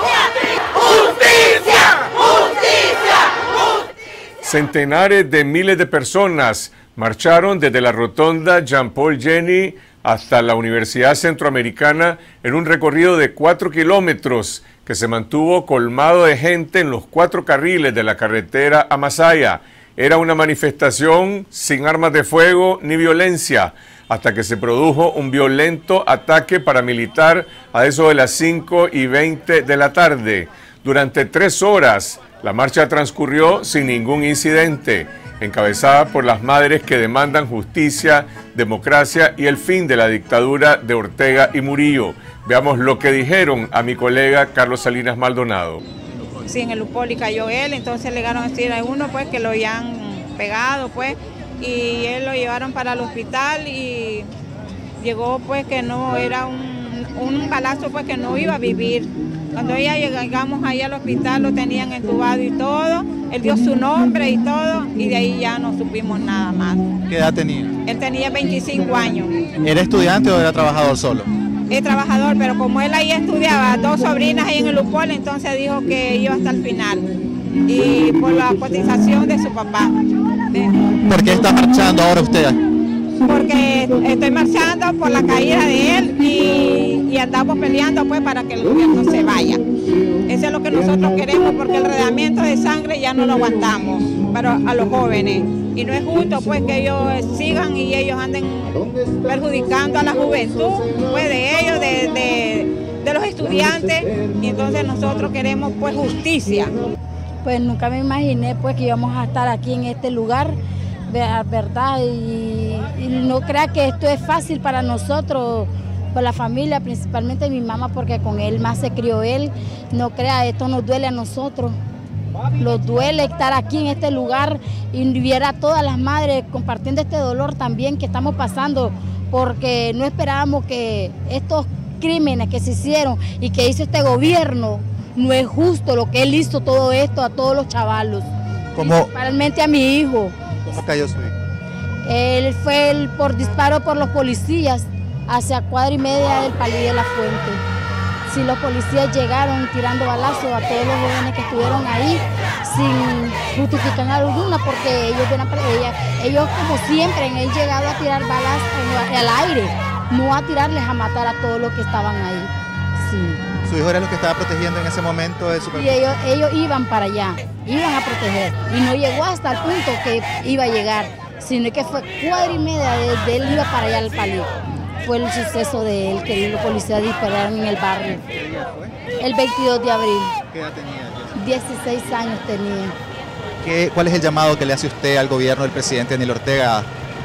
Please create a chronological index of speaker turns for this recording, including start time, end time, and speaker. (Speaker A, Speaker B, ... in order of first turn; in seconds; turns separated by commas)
Speaker A: 4.4-45.8, Speaker B: 46.5-54.3, Speaker B: 55.0-66.8, Speaker C: 67.1-67.7, Speaker B: 67.8-69.3, Speaker C: 69.6-71.3, Speaker B: 71.7-77.1, Speaker B: 77.7-79.9, Speaker C: 81.0-82.6, Speaker B: 83.2-89.6, Speaker B: 90.2-106.7, Speaker D: 107.4-121.8, Speaker D: 122.6-140.3, Speaker C: 138.8-139.1, Speaker C: 140.7-141.3, Speaker D: 142.0-147.6, Speaker D: 148.2-163.4, Speaker C: 163.7-165.9, Speaker D: 165.8-178.2, Speaker C: 178.3-178.9, Speaker D: 179.2-180.3, Speaker C: 180.5-181.6, Speaker D: 181.3-182.9, Speaker C: 183.6-186.9